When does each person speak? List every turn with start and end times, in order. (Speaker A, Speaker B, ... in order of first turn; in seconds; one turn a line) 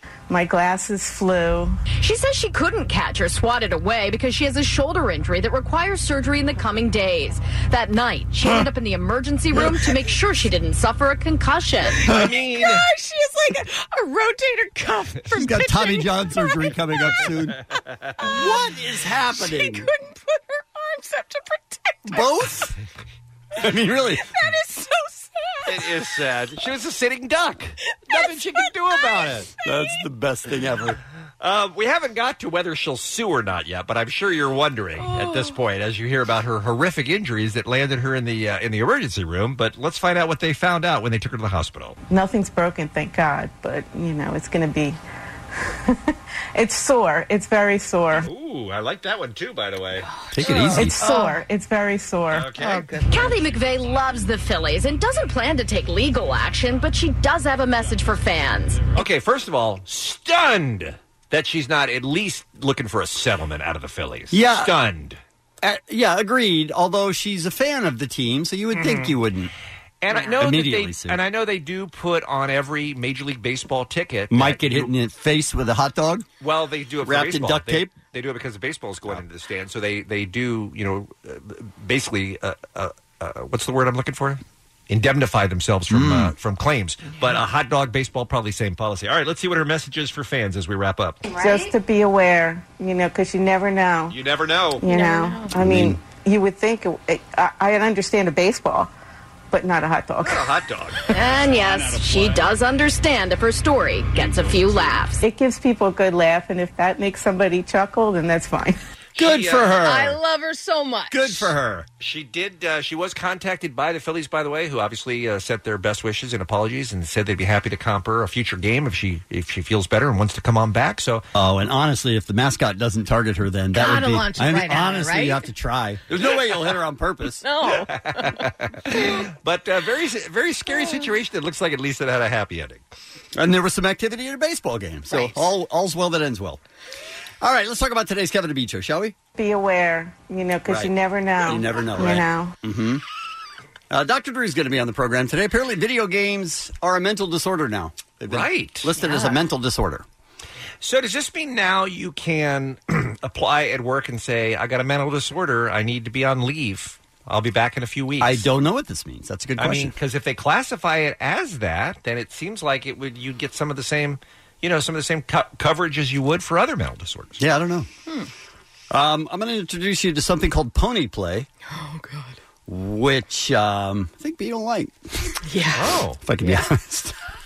Speaker A: 0.3-1.8
Speaker B: 2.0-12.1
Speaker C: 12.1-12.9
Speaker D: 12.6-17.3
Speaker E: 15.3-17.6
Speaker E: 18.2-19.9
Speaker D: 18.2-18.5
Speaker D: 19.3-22.4
Speaker E: 22.1-22.7
Speaker E: 23.6-24.3
Speaker D: 24.3-25.7
Speaker C: 25.7-29.5
Speaker D: 28.1-29.9
Speaker E: 29.6-31.0
Speaker C: 31.4-42.0
Speaker D: 35.0-35.5
Speaker A: 42.1-45.0
Speaker A: 45.6-48.3
Speaker C: 48.2-50.1
Speaker D: 50.0-51.4
Speaker E: 50.3-51.0
Speaker A: 50.7-52.5
Speaker C: 52.3-52.9
Speaker D: 52.6-53.4
Speaker B: 53.1-58.9
Speaker C: 58.9-65.2
Speaker E: 64.3-64.7
Speaker E: 65.6-69.5
Speaker C: 68.7-69.2
Speaker C: 70.0-74.9
Speaker E: 70.1-71.2
Speaker E: 74.3-76.3
Speaker C: 76.4-91.2
Speaker E: 77.0-77.9
Speaker E: 85.9-86.3
Speaker A: 91.3-94.2
Speaker C: 94.1-94.8
Speaker A: 94.8-98.9
Speaker D: 94.9-95.5
Speaker E: 95.5-96.0
Speaker A: 99.5-100.5
Speaker C: 100.2-101.2
Speaker B: 101.1-105.2
Speaker A: 105.2-108.8
Speaker C: 109.2-110.1
Speaker E: 109.2-110.0
Speaker D: 109.8-111.5
Speaker E: 111.1-111.8
Speaker C: 111.4-121.2
Speaker E: 121.3-127.4
Speaker D: 123.7-125.5
Speaker D: 127.4-129.1
Speaker C: 128.1-132.8
Speaker E: 133.3-136.6
Speaker D: 135.1-135.4
Speaker E: 137.4-139.2
Speaker A: 139.4-142.5
Speaker E: 140.7-143.0
Speaker E: 143.9-150.1
Speaker C: 148.3-148.9
Speaker D: 149.0-149.4
Speaker C: 150.8-158.5
Speaker E: 158.2-159.9
Speaker C: 159.6-167.4
Speaker E: 167.4-167.9
Speaker E: 168.9-171.5
Speaker D: 171.7-172.4
Speaker E: 172.7-175.3
Speaker D: 175.5-176.7
Speaker C: 175.7-176.2
Speaker E: 176.2-177.1